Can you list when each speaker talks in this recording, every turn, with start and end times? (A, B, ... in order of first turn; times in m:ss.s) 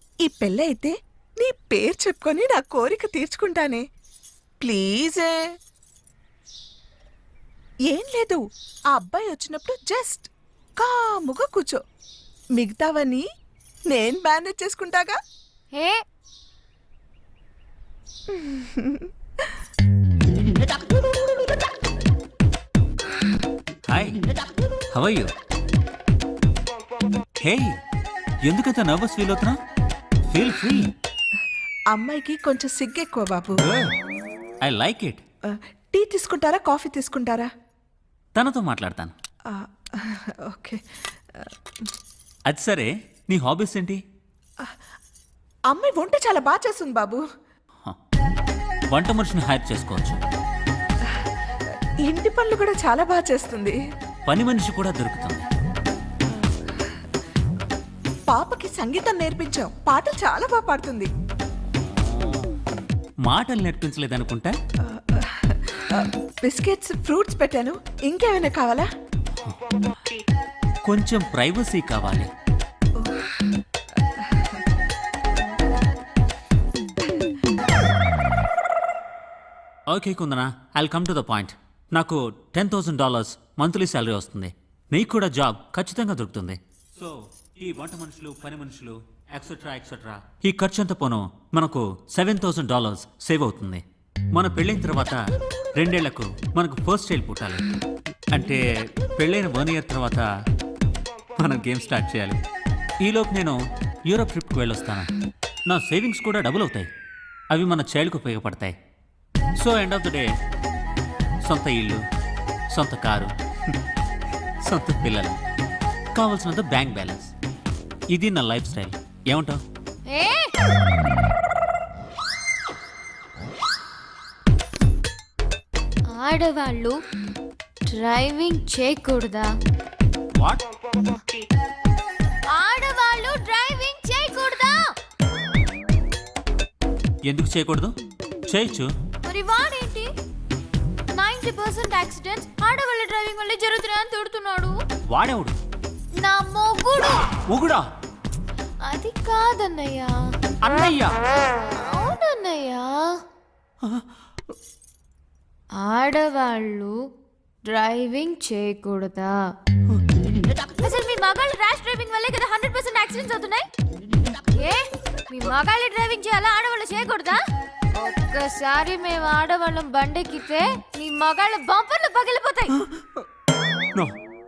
0:00.2-0:03.8 A
0:04.6-0:05.4 A
0:07.9-0:08.4 A
0:08.9-0:11.8 A
0:12.6-0:13.2 A
0:13.9-0:15.2 A
0:15.7-0:16.0 B
0:18.3-0:19.6 A
0:23.9-0:24.2 C
0:24.9-0:25.3 C
0:27.4-0:27.8 C
0:28.4-0:29.6 C
0:30.3-0:30.9 C
0:31.9-0:33.6 A
0:33.6-0:33.9 C
0:34.6-0:35.2 C
0:35.5-0:37.5 A
0:38.4-0:39.1 C
0:39.5-0:40.8 A
0:42.5-0:44.0 C
0:45.7-0:47.2 A
0:48.9-0:50.2 C
0:52.0-0:53.8 A
0:54.3-0:55.4 C
0:58.3-1:01.1 A
1:03.2-1:04.5 C
1:04.8-1:08.9 A
1:10.8-1:12.3 C
1:13.0-1:13.2 A
1:14.2-1:14.6 A
1:19.9-1:33.8 C
1:34.3-1:37.6 C
1:38.3-1:40.3 C
1:41.4-1:42.4 C
1:43.0-1:45.1 C
1:45.7-1:46.9 C
1:47.5-1:48.7 C
1:49.6-1:50.3 C
1:51.4-1:52.0 C
1:52.7-1:53.3 C
1:54.6-1:55.4 C
1:56.1-1:57.3 C
1:58.1-1:59.6 C
2:00.1-2:00.5 B
2:06.1-2:07.0 B
2:07.9-2:09.5 B
2:10.4-2:10.6 C
2:12.5-2:14.8 B
2:17.2-2:17.9 C
2:18.5-2:18.9 C
2:19.2-2:20.1 B
2:21.1-2:24.8 B
2:25.1-2:25.5 C
2:26.2-2:27.2 B
2:27.5-2:27.8 C
2:28.8-2:30.3 B
2:30.7-2:31.1 C
2:31.8-2:33.2 B
2:35.8-2:36.9 B
2:37.6-2:39.4 B
2:40.8-2:43.6 B
2:44.5-2:47.4 B
2:48.0-2:52.7 B